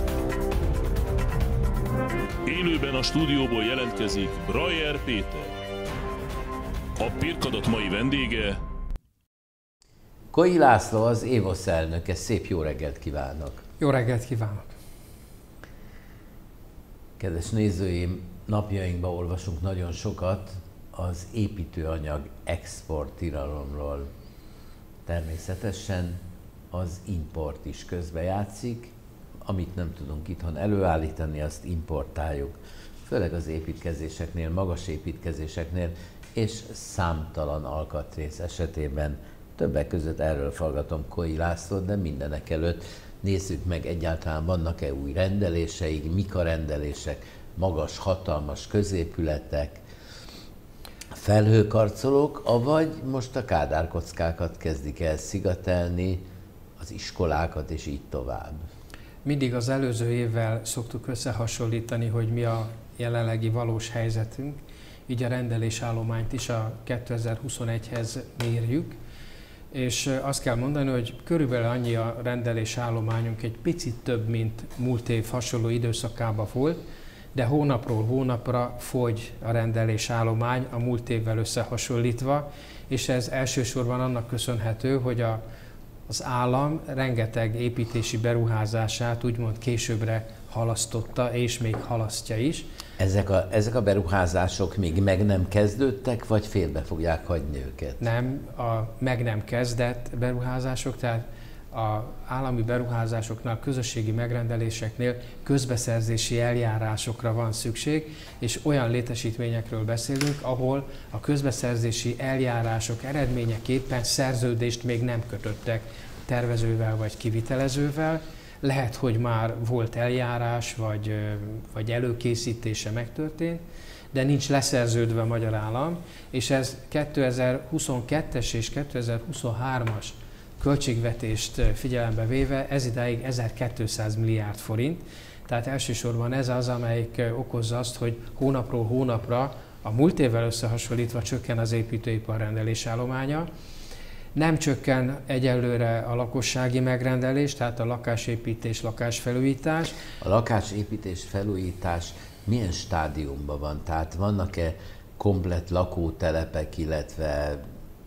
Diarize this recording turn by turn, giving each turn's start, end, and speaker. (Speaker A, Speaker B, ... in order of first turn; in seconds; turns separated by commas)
Speaker A: 2.5-5.5, Speaker A: 7.0-8.6, Speaker B: 10.3-13.6, Speaker C: 13.8-14.7, Speaker B: 17.2-24.1, Speaker B: 25.1-26.2, Speaker B: 26.7-28.9, Speaker B: 29.5-49.8, Speaker B: 51.1-56.2, Speaker B: 56.8-58.6, Speaker C: 59.2-69.0, Speaker C: 69.7-76.8, Speaker C: 77.3-85.4, Speaker C: 86.1-92.7, Speaker B: 93.0-98.0, Speaker C: 98.0-143.5, Speaker C: 144.3-150.0, Speaker B: 150.2-157.6